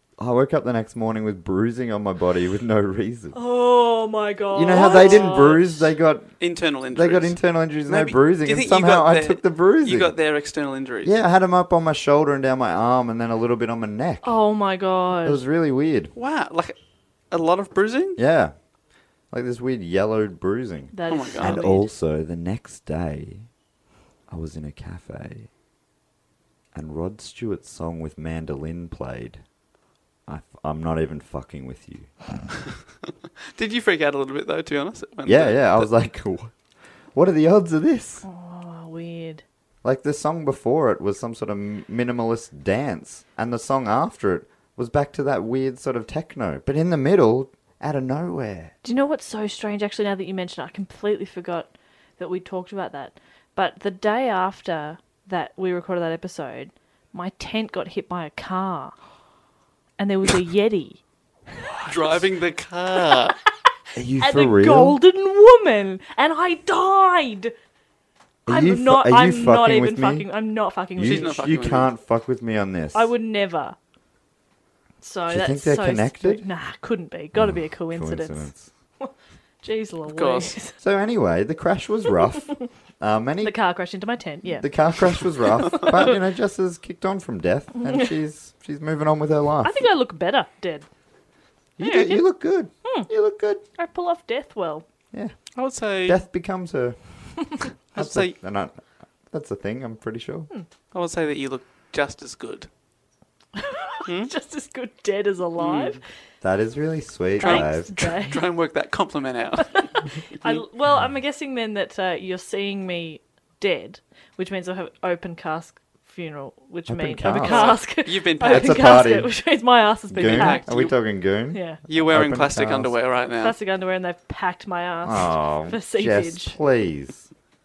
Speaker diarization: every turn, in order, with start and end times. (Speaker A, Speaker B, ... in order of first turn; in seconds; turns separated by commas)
Speaker A: 0.2-3.4, Speaker B: 3.3-5.8, Speaker A: 4.5-6.4, Speaker C: 4.8-5.5, Speaker C: 6.4-11.1, Speaker A: 6.9-10.1, Speaker A: 11.0-14.3, Speaker B: 14.2-15.4, Speaker A: 15.2-16.1, Speaker C: 16.1-16.8, Speaker C: 17.3-18.2, Speaker A: 18.2-18.5, Speaker A: 19.3-23.5, Speaker B: 20.9-21.9, Speaker C: 21.1-21.5, Speaker A: 24.3-25.5, Speaker A: 26.7-29.4, Speaker A: 30.3-32.2, Speaker C: 33.5-35.9, Speaker A: 35.2-36.5, Speaker A: 37.1-38.3, Speaker B: 38.2-39.4, Speaker A: 39.8-48.7, Speaker B: 48.8-59.0, Speaker B: 60.0-61.0, Speaker C: 61.9-63.4, Speaker A: 64.0-65.0, Speaker B: 64.2-67.5, Speaker A: 68.5-70.3, Speaker B: 68.5-71.4, Speaker A: 71.0-73.1, Speaker C: 71.0-71.9, Speaker B: 72.9-73.8, Speaker B: 75.0-80.8, Speaker A: 75.3-76.5, Speaker A: 77.3-78.7, Speaker C: 80.1-80.5, Speaker A: 80.8-83.6, Speaker B: 83.4-85.2, Speaker A: 84.6-89.8, Speaker B: 85.7-86.0, Speaker B: 89.6-90.9, Speaker A: 91.8-93.6, Speaker B: 91.8-92.2, Speaker B: 92.8-93.1, Speaker B: 93.6-94.8, Speaker A: 95.1-100.5, Speaker C: 95.5-96.2, Speaker C: 97.9-98.4, Speaker C: 100.9-102.7, Speaker B: 103.6-106.0, Speaker C: 104.1-104.3, Speaker C: 105.6-106.0, Speaker A: 106.4-107.9, Speaker B: 107.4-108.4, Speaker C: 107.4-110.6, Speaker B: 110.4-120.8, Speaker A: 116.9-119.4, Speaker C: 117.3-119.0, Speaker A: 120.1-123.0, Speaker C: 120.2-121.0, Speaker B: 121.5-121.8, Speaker C: 121.9-123.6, Speaker B: 123.4-126.6, Speaker A: 125.0-127.3